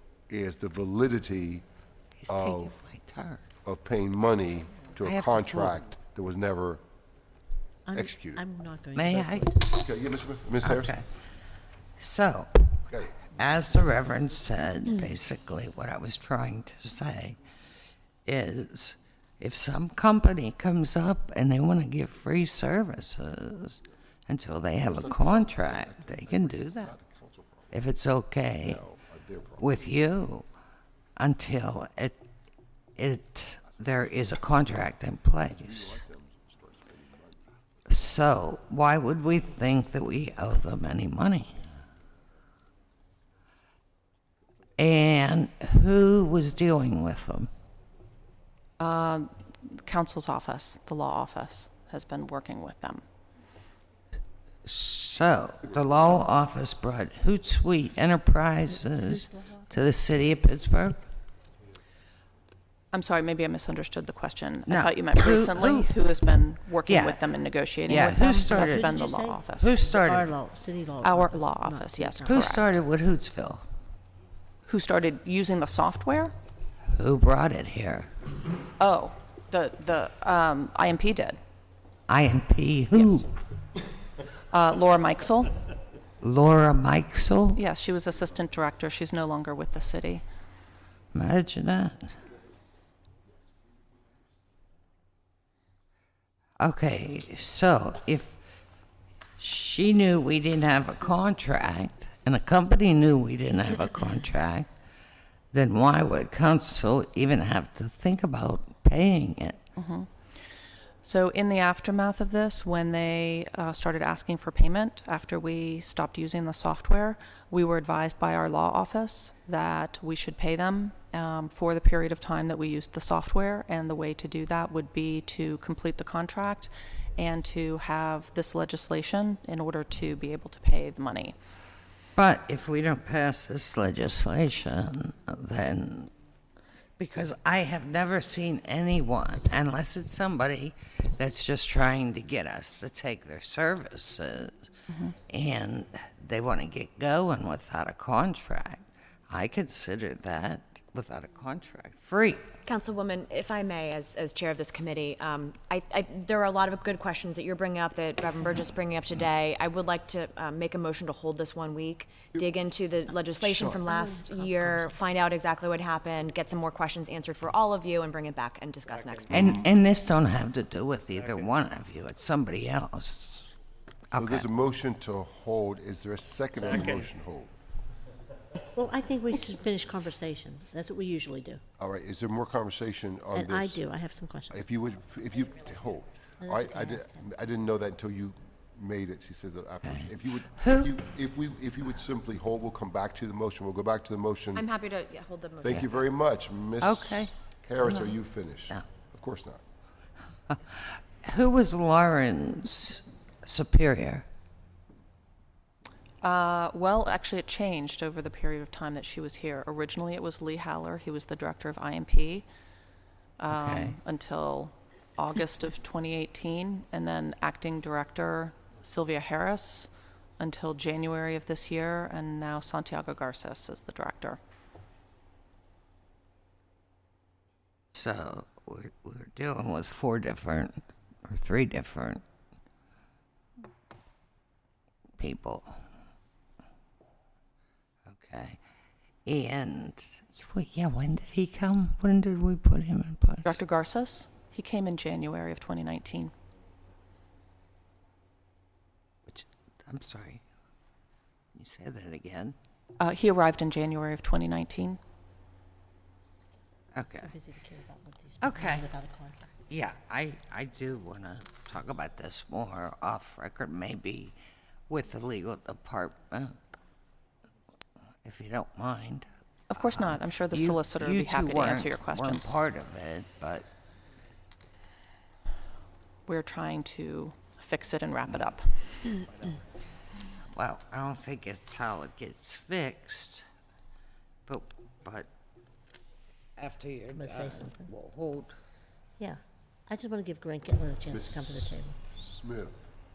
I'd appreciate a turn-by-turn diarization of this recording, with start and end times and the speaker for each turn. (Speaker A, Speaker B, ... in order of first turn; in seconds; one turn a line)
Speaker A: 0.3-1.6
Speaker B: 2.2-3.4
Speaker A: 2.3-2.7
Speaker A: 3.6-6.8
Speaker B: 5.0-5.8
Speaker C: 7.9-9.6
Speaker A: 7.9-8.4
Speaker B: 9.0-9.8
Speaker A: 9.7-11.0
Speaker B: 10.6-11.1
Speaker B: 12.0-12.8
Speaker A: 12.9-13.2
Speaker B: 13.3-17.4
Speaker B: 18.3-26.9
Speaker A: 24.8-27.8
Speaker B: 27.7-28.8
Speaker A: 28.6-29.9
Speaker B: 29.6-30.5
Speaker B: 31.2-32.2
Speaker B: 33.0-36.0
Speaker A: 35.5-37.4
Speaker B: 37.9-41.6
Speaker B: 44.8-47.5
Speaker D: 48.8-53.0
Speaker B: 54.6-61.0
Speaker C: 59.1-59.7
Speaker D: 62.9-69.8
Speaker B: 64.7-65.9
Speaker B: 66.9-70.3
Speaker C: 67.9-72.5
Speaker D: 71.0-72.7
Speaker B: 72.3-73.7
Speaker D: 74.7-76.3
Speaker B: 76.9-78.1
Speaker D: 78.8-81.4
Speaker B: 82.1-83.3
Speaker D: 82.9-83.2
Speaker D: 84.5-85.5
Speaker B: 86.2-87.6
Speaker D: 87.5-90.2
Speaker B: 91.1-92.1
Speaker B: 96.6-98.4
Speaker B: 99.4-104.7
Speaker B: 105.5-109.6
Speaker D: 109.8-110.1
Speaker D: 111.0-131.4
Speaker B: 132.2-136.1
Speaker B: 137.0-144.7
Speaker D: 144.9-145.2
Speaker B: 145.3-152.5
Speaker E: 152.7-169.7
Speaker C: 163.4-164.9
Speaker B: 169.3-173.5
Speaker B: 174.1-174.5
Speaker A: 174.2-177.5
Speaker C: 178.7-181.6
Speaker A: 181.8-183.8
Speaker C: 183.3-184.6
Speaker A: 184.5-194.7
Speaker C: 186.4-187.4
Speaker B: 189.8-190.9
Speaker E: 194.5-196.0
Speaker A: 195.6-199.6
Speaker B: 196.8-198.2
Speaker B: 201.2-204.3
Speaker D: 206.2-212.5
Speaker D: 213.4-224.4
Speaker B: 213.5-214.0
Speaker B: 227.9-232.2
Speaker B: 235.2-235.8
Speaker B: 238.1-238.6
Speaker B: 239.3-243.6
Speaker D: 243.4-246.3
Speaker B: 249.3-250.4
Speaker B: 251.6-252.6
Speaker D: 253.0-255.0
Speaker B: 256.9-257.4
Speaker C: 257.2-259.5
Speaker B: 258.4-258.9
Speaker B: 259.7-264.4
Speaker B: 264.9-266.6
Speaker B: 268.2-273.7
Speaker D: 269.7-272.6
Speaker D: 276.3-279.2
Speaker B: 280.6-283.4
Speaker B: 284.5-285.3
Speaker B: 286.6-288.6
Speaker C: 287.1-287.9
Speaker C: 289.2-292.0
Speaker A: 291.1-292.8